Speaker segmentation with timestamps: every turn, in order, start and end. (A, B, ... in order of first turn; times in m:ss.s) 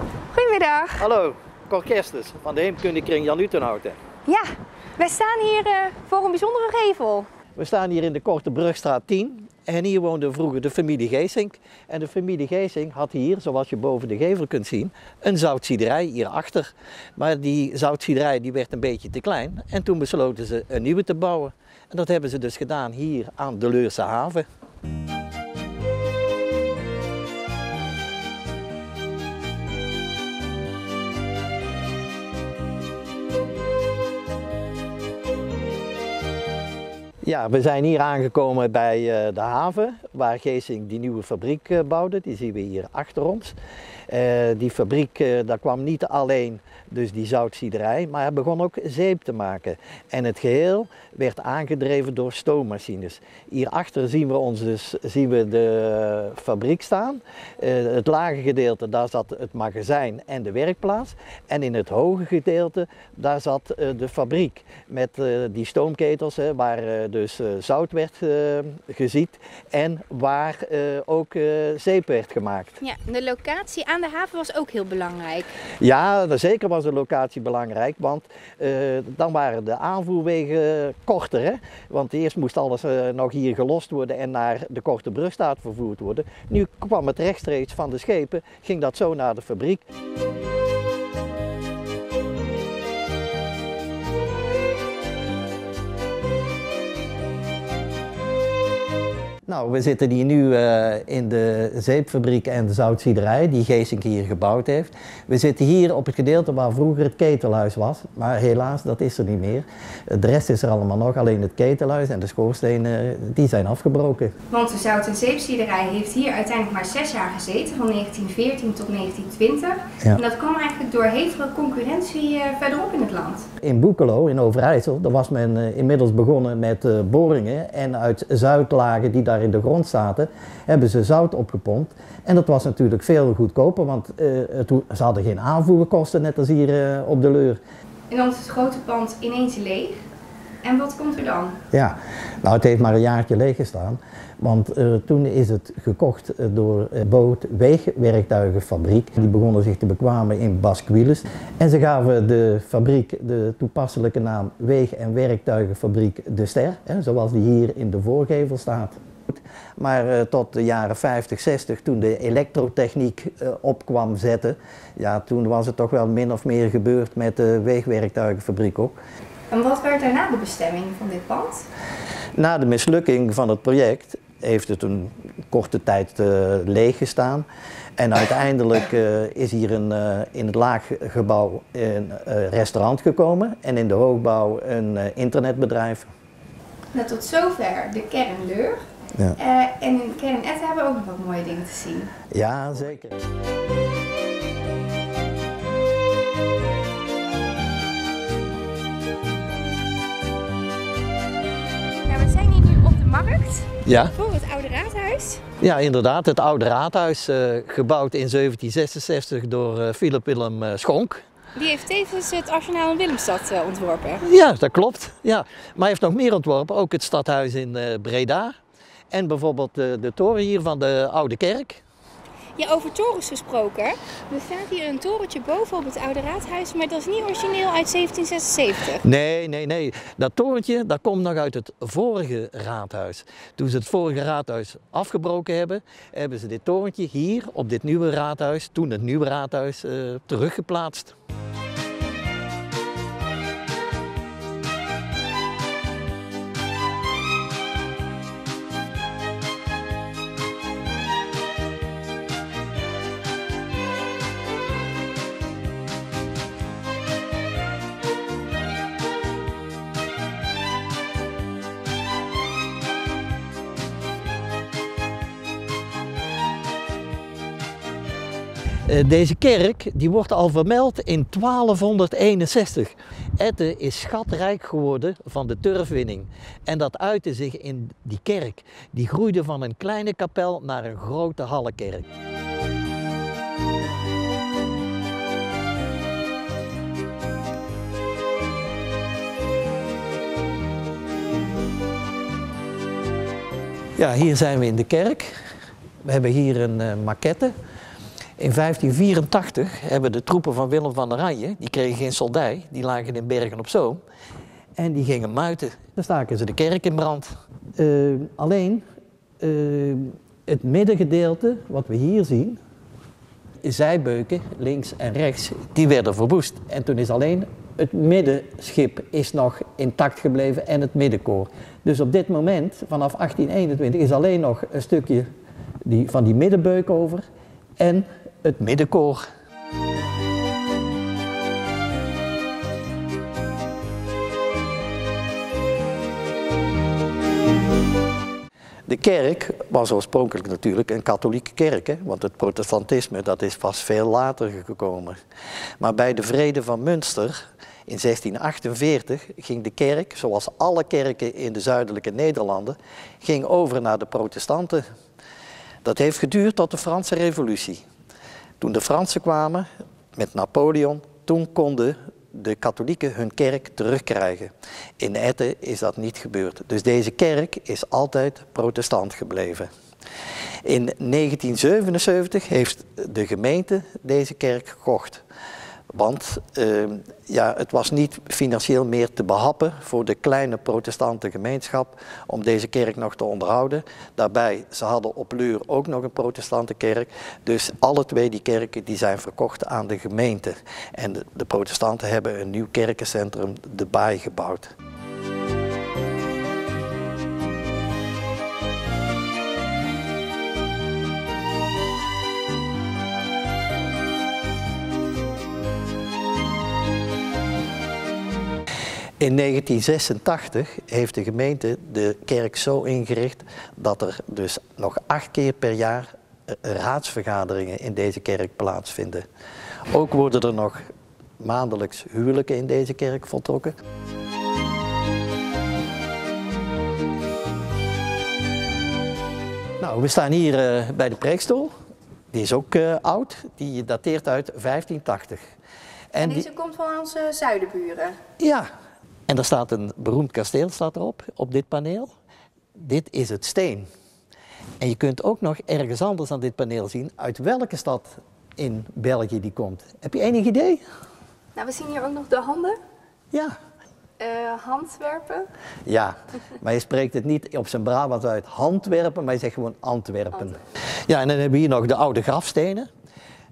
0:00.3-0:01.0 A
0:01.0-0:04.0 B
0:05.0-0:07.3 A
0:07.6-0:24.5 B
0:37.2-0:43.6 B
0:44.1-1:12.8 B
1:12.8-1:15.5 A
1:15.8-1:29.8 B
1:39.5-1:54.3 B
1:54.5-2:03.5 A
2:03.6-2:17.6 B
2:18.1-2:20.0 A
2:20.6-2:21.6 A
2:21.7-2:49.0 B
2:49.5-2:51.7 A
2:52.4-2:57.5 B
2:58.0-3:06.1 B
3:06.9-3:08.8 A
3:09.4-3:12.1 A
3:12.3-3:13.2 B
3:22.0-3:25.5 A
3:23.8-3:24.2 B
3:25.6-3:31.2 B
3:31.6-3:34.2 A
3:34.2-3:38.6 B
3:39.1-3:41.8 B
3:42.6-3:49.0 A
3:49.0-4:01.2 B
4:28.9-4:42.1 B
4:54.0-4:55.3 B
4:56.0-4:57.6 B
4:58.4-5:04.0 B
5:04.8-5:08.8 B
5:09.4-5:12.6 B
5:13.6-5:25.3 B
5:25.9-5:27.2 B
5:27.8-5:29.2 B
5:38.9-5:45.2 B
5:45.8-5:47.3 B
5:47.9-5:54.8 B
5:55.8-5:57.8 B
5:58.6-6:09.7 B
6:10.6-6:15.2 B
6:15.9-6:34.7 B
6:49.2-6:59.3 B
6:59.9-7:00.8 B
7:01.4-7:03.8 B
7:09.8-7:11.7 B
7:12.3-7:15.4 B
7:16.1-7:16.5 B
7:16.2-7:18.2 A
7:18.4-7:18.6 B
7:19.3-7:22.1 B
7:22.8-7:23.8 B
7:24.8-7:30.8 B
7:31.6-7:32.8 A
7:34.2-7:35.5 A
7:35.9-7:42.9 B